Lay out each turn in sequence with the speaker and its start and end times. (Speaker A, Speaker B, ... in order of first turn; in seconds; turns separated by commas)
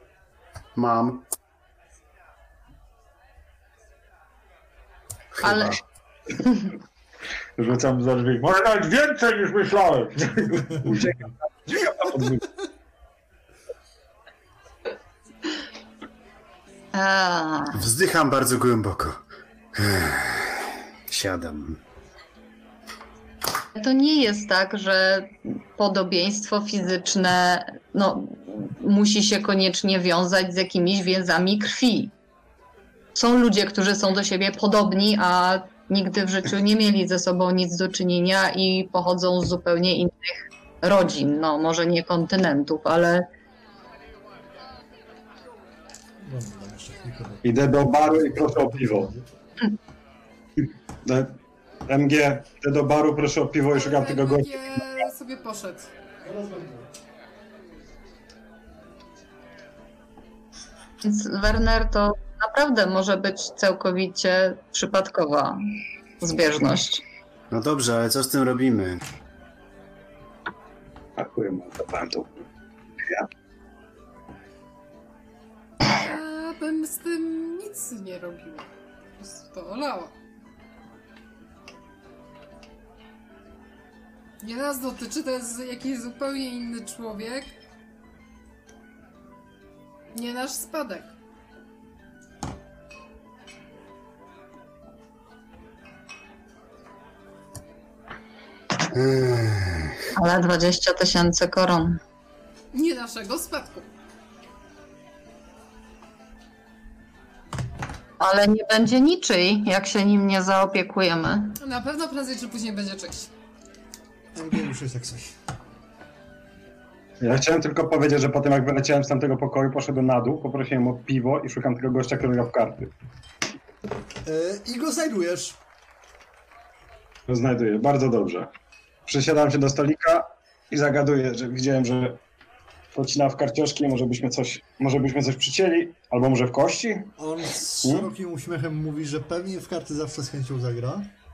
Speaker A: 0.8-1.3, Speaker A: 5.4-5.8, Speaker B: 5.4-5.8, Speaker B: 6.4-6.7, Speaker C: 7.6-10.9, Speaker D: 10.7-12.5, Speaker B: 16.9-17.8, Speaker A: 17.7-19.2, Speaker A: 19.7-21.8, Speaker B: 23.8-32.1, Speaker B: 33.1-43.3, Speaker E: 46.2-49.3, Speaker D: 47.4-49.1, Speaker D: 51.0-54.7, Speaker F: 53.7-55.9, Speaker E: 56.2-56.9, Speaker B: 61.0-65.6, Speaker B: 66.2-67.0, Speaker A: 67.5-69.0, Speaker D: 71.2-72.5, Speaker F: 75.8-78.7, Speaker F: 79.2-80.1, Speaker F: 84.4-87.5, Speaker F: 90.1-91.1, Speaker A: 98.9-100.0, Speaker B: 100.1-102.0, Speaker F: 102.7-103.9, Speaker B: 108.2-111.6, Speaker F: 111.6-113.3, Speaker E: 114.3-115.3, Speaker D: 117.2-122.9, Speaker E: 124.2-125.6, Speaker D: 127.3-128.5, Speaker D: 129.1-132.2, Speaker D: 132.9-137.1, Speaker E: 137.2-141.1, Speaker D: 137.8-138.1